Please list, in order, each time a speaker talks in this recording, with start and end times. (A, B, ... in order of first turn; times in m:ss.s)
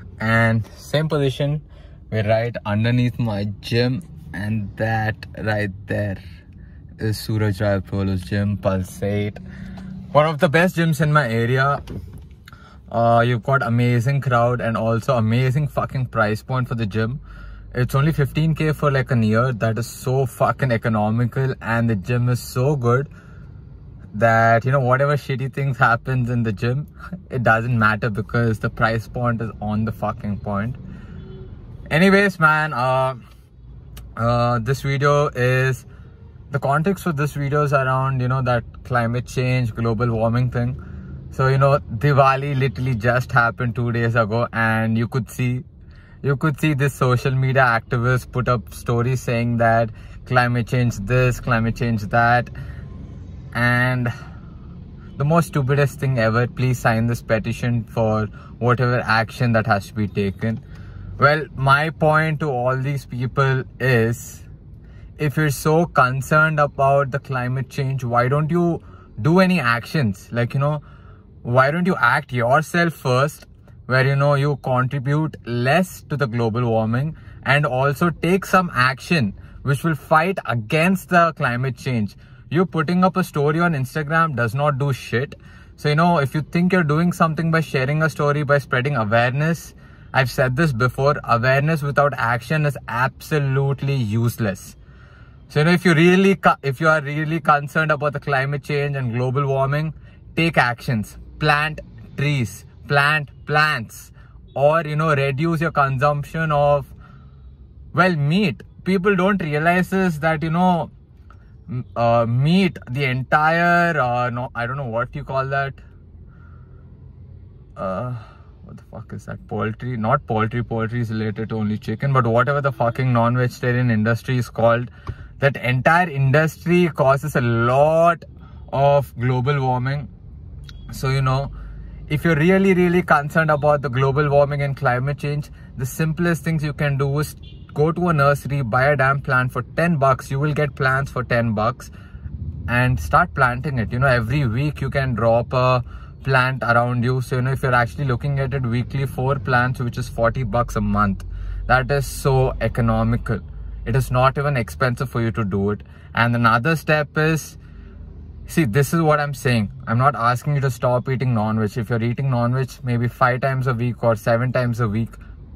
0:00.2-0:06.2 A
0:07.0-0:09.4 A
0:10.1-0:11.8 A
0:12.9-0:17.2 A
0:17.7-0:23.1 A
0:24.1-0:30.8 A
0:31.9-0:33.2 A
0:34.2-0:35.9 A
0:36.5-0:40.8 A
0:41.3-0:45.7 A
0:46.2-0:52.5 A
0:53.5-0:54.1 A
0:55.2-1:00.6 A
1:01.2-1:04.5 A
1:05.2-1:10.8 A
1:11.4-1:34.8 A
1:35.5-1:46.9 A
1:47.9-1:50.9 A
1:51.7-1:55.8 A
1:57.8-2:10.1 A
2:10.9-2:11.5 A
2:12.1-2:21.9 A
2:22.7-2:37.6 A
2:38.5-2:45.2 A